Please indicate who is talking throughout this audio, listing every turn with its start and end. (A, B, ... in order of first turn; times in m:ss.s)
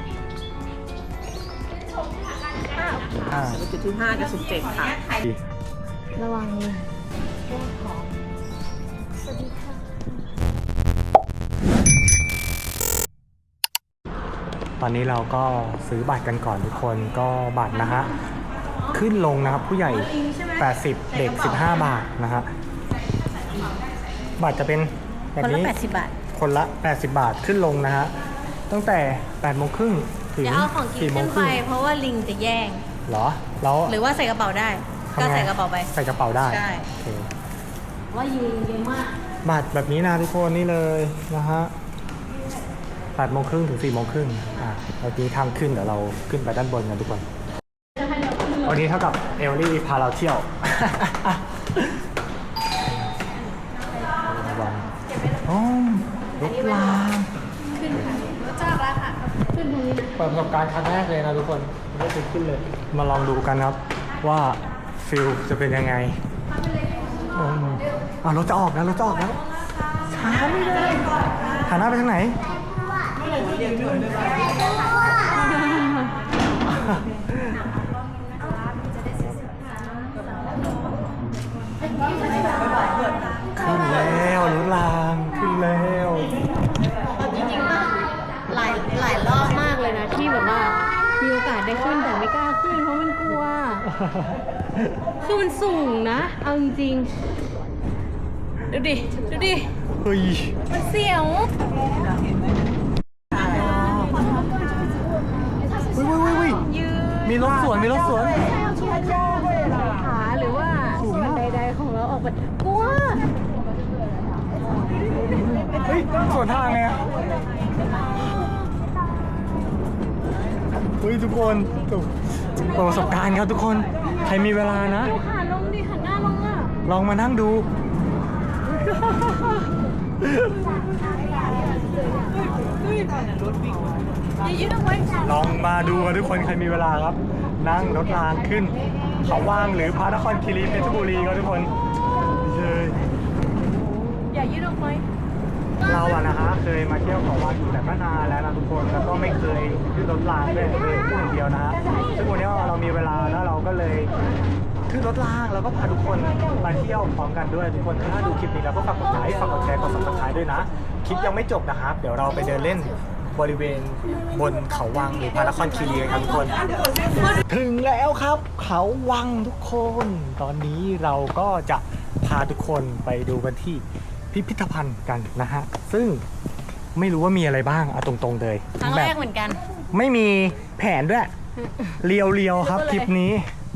0:02.7-0:03.3 A
0:03.3-0:03.6 B
0:03.3-0:05.1 C
0:06.2-0:06.9 A
0:07.5-0:08.1 A
0:09.2-0:10.2 A
0:14.8-0:18.1 B
0:18.9-0:22.5 B
0:19.9-0:20.7 A
0:23.6-0:23.8 C
0:24.4-0:25.7 B
0:25.4-0:26.2 A
0:26.3-0:28.1 B
0:28.7-0:31.6 B
0:30.4-0:32.8 A
0:33.1-0:34.0 B
0:33.9-0:36.9 A
0:35.1-0:37.3 B
0:38.1-0:39.2 A
0:39.4-0:41.7 B
0:43.2-0:47.3 B
0:48.0-0:48.7 A
0:48.6-0:52.0 B
0:54.2-0:54.9 B
0:55.4-0:57.3 B
0:56.4-0:57.0 A
0:57.7-1:00.2 A
1:00.2-1:06.2 B
1:07.3-1:09.4 B
1:10.0-1:12.4 B
1:16.7-1:17.6 B
1:23.6-1:26.3 B
1:27.2-1:28.0 A
1:28.5-1:33.9 A
1:34.0-1:34.3 B
1:35.2-1:37.1 A
1:38.7-1:39.7 A
1:40.0-1:40.6 B
1:40.7-1:41.5 A
1:43.3-1:44.3 B
1:45.9-1:46.7 B
1:47.2-1:48.4 B
1:48.4-1:53.3 A
1:50.9-1:51.6 B
1:55.2-1:57.0 B
2:01.0-2:05.2 B
2:04.8-2:06.7 A
2:06.9-2:07.7 B
2:08.7-2:09.7 B
2:10.2-2:10.9 B
2:11.3-2:12.2 A
2:14.4-2:15.5 A
2:15.2-2:21.7 B
2:22.4-2:23.0 B
2:24.3-2:25.0 A
2:25.8-2:34.1 B
2:31.8-2:33.0 A
2:34.2-2:34.6 A
2:34.9-2:46.6 B
2:47.5-2:56.2 B
2:57.0-2:59.1 B
2:58.8-2:59.6 A
2:59.9-3:01.3 B
3:01.6-3:02.0 A
3:02.0-3:03.5 B
3:02.6-3:03.1 A